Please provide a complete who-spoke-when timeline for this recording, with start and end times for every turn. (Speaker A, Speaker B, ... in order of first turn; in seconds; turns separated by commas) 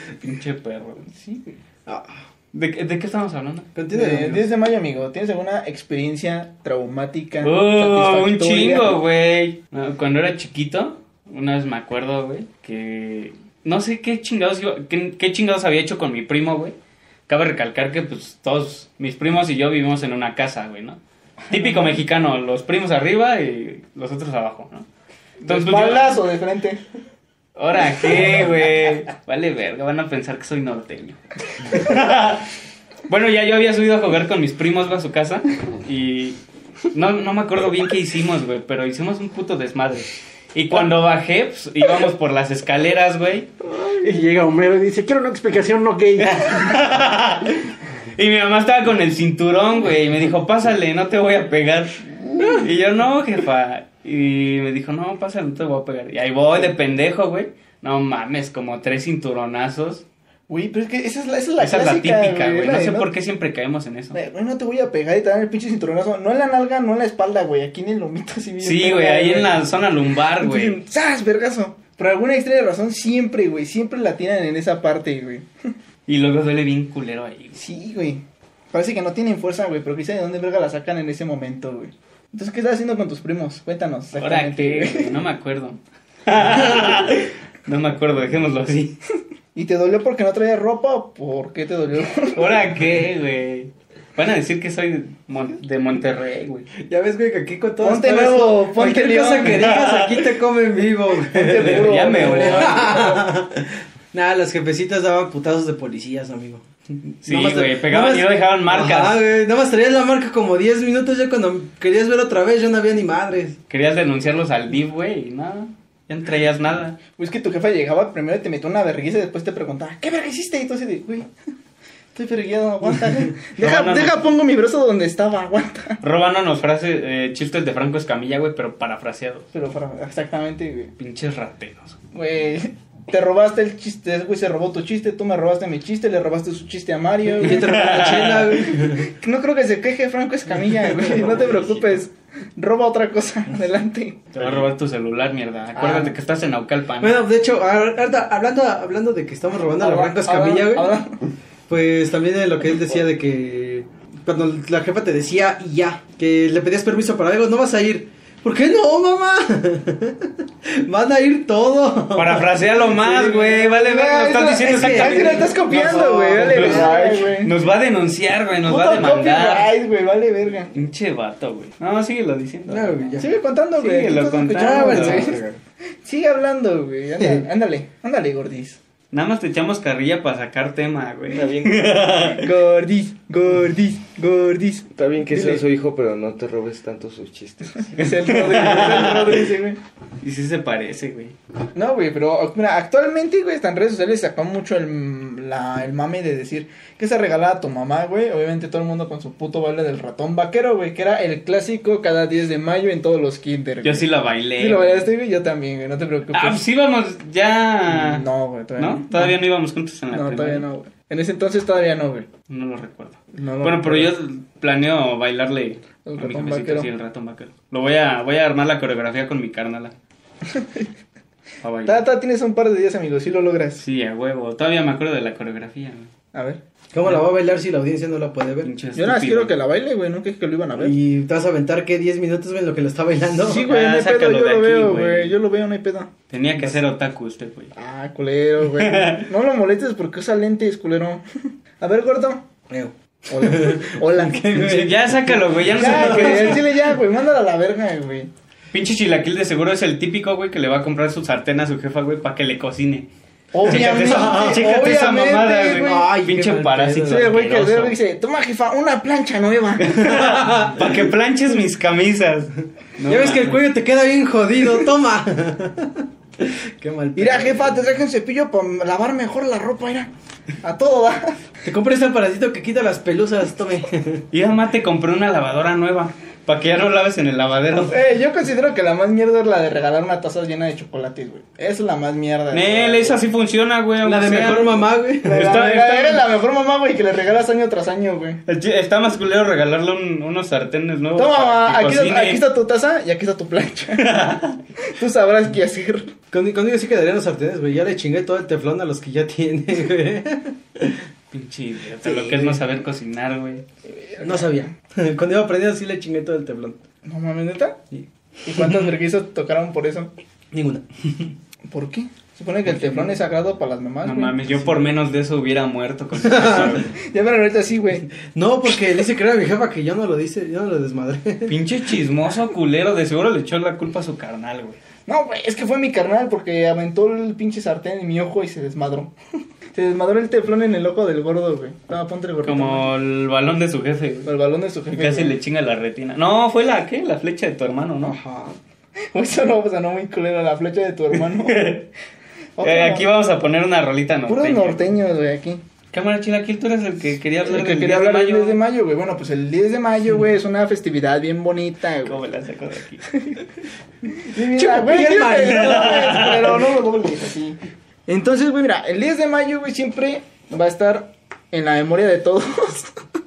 Speaker A: 0.2-1.1, Speaker B: 1.1-1.6, Speaker C: 1.9-2.2, Speaker A: 2.5-3.7, Speaker C: 3.8-4.5, Speaker B: 3.9-9.0, Speaker A: 7.4-16.8, Speaker A: 17.3-24.9, Speaker B: 25.4-26.8, Speaker A: 25.5-26.2, Speaker A: 27.6-32.5, Speaker A: 33.1-36.4, Speaker A: 36.9-43.5, Speaker D: 43.7-46.8, Speaker A: 46.2-60.0, Speaker B: 60.5-63.1, Speaker A: 61.6-64.2, Speaker B: 64.1-75.5, Speaker A: 68.6-70.8, Speaker A: 76.1-77.6, Speaker B: 77.6-85.2, Speaker A: 84.2-89.0, Speaker B: 89.5-92.6, Speaker A: 92.3-96.7, Speaker C: 96.8-106.7, Speaker B: 97.8-99.7, Speaker A: 99.5-100.3, Speaker B: 101.3-103.3, Speaker A: 101.6-103.1, Speaker C: 107.2-113.6, Speaker A: 107.2-109.2, Speaker A: 113.7-117.0, Speaker B: 117.2-121.3, Speaker B: 122.1-126.0, Speaker A: 123.6-124.2, Speaker A: 126.0-129.5, Speaker B: 129.5-130.9, Speaker A: 131.0-132.0, Speaker B: 132.1-137.8, Speaker C: 137.4-139.1, Speaker A: 137.5-138.7, Speaker B: 138.6-144.4, Speaker A: 141.1-141.9, Speaker A: 144.3-147.2, Speaker B: 145.8-146.2, Speaker C: 147.0-151.0, Speaker B: 149.8-151.2, Speaker C: 151.7-163.6, Speaker A: 162.1-165.6, Speaker B: 163.2-167.6, Speaker C: 164.5-167.2, Speaker A: 166.4-169.7, Speaker B: 168.6-170.7, Speaker A: 170.8-173.2, Speaker C: 172.7-173.3, Speaker B: 173.2-175.4, Speaker A: 173.8-175.4, Speaker C: 174.5-175.6, Speaker B: 176.0-178.8, Speaker C: 177.2-177.5, Speaker A: 179.1-182.5, Speaker E: 181.3-182.0, Speaker B: 182.3-185.6, Speaker E: 184.9-188.0, Speaker B: 187.9-189.8, Speaker A: 188.0-189.4, Speaker A: 190.2-191.3, Speaker B: 191.8-206.6, Speaker A: 203.8-205.1, Speaker A: 206.3-210.7, Speaker B: 207.9-209.4, Speaker B: 210.1-212.3, Speaker A: 212.5-219.9, Speaker B: 213.3-214.1, Speaker B: 216.1-216.9, Speaker B: 220.4-220.9, Speaker A: 221.6-222.0, Speaker B: 221.8-223.8, Speaker A: 223.8-226.1, Speaker B: 226.3-226.6, Speaker C: 226.9-228.7, Speaker A: 228.6-229.5, Speaker B: 228.9-231.0, Speaker C: 230.8-233.6, Speaker B: 233.4-236.8, Speaker A: 233.5-235.3, Speaker A: 236.3-237.7, Speaker B: 237.8-241.2, Speaker A: 238.8-239.3, Speaker B: 241.8-242.5, Speaker C: 242.7-246.6, Speaker B: 243.3-244.5, Speaker A: 244.5-246.7, Speaker B: 245.7-248.3, Speaker A: 248.7-253.1, Speaker B: 253.5-256.1, Speaker A: 253.6-258.0, Speaker C: 253.7-254.7, Speaker C: 255.7-257.4, Speaker B: 257.1-260.1, Speaker A: 259.8-263.6, Speaker C: 260.0-260.8, Speaker C: 263.1-268.0, Speaker B: 267.2-270.1, Speaker B: 270.6-271.4, Speaker C: 271.6-274.3, Speaker A: 274.3-278.0, Speaker B: 277.9-283.2, Speaker A: 282.5-286.0, Speaker C: 284.0-286.1, Speaker B: 285.2-288.4, Speaker A: 288.5-292.4, Speaker B: 291.2-294.2, Speaker A: 293.9-294.6, Speaker B: 294.8-296.1, Speaker C: 296.3-301.0, Speaker A: 301.3-303.6, Speaker B: 302.1-302.6, Speaker B: 303.9-304.7, Speaker C: 304.2-306.8, Speaker B: 307.0-307.8, Speaker B: 308.4-310.1, Speaker C: 310.5-310.8, Speaker B: 311.7-314.5, Speaker C: 312.7-313.0, Speaker A: 314.0-316.9, Speaker C: 316.2-316.8, Speaker B: 316.9-318.1, Speaker C: 318.2-321.6, Speaker A: 321.5-324.8, Speaker B: 325.1-329.1, Speaker B: 329.7-332.9, Speaker A: 332.4-334.3, Speaker B: 334.2-335.4, Speaker A: 334.9-338.2, Speaker C: 338.0-338.6, Speaker B: 339.1-341.8, Speaker A: 341.2-341.9, Speaker B: 342.6-343.1, Speaker A: 342.6-344.9, Speaker B: 344.3-345.6, Speaker A: 345.9-348.6, Speaker B: 347.4-352.2, Speaker A: 352.1-353.1, Speaker B: 353.1-353.4, Speaker B: 354.2-363.0, Speaker C: 354.3-356.4, Speaker A: 355.4-356.6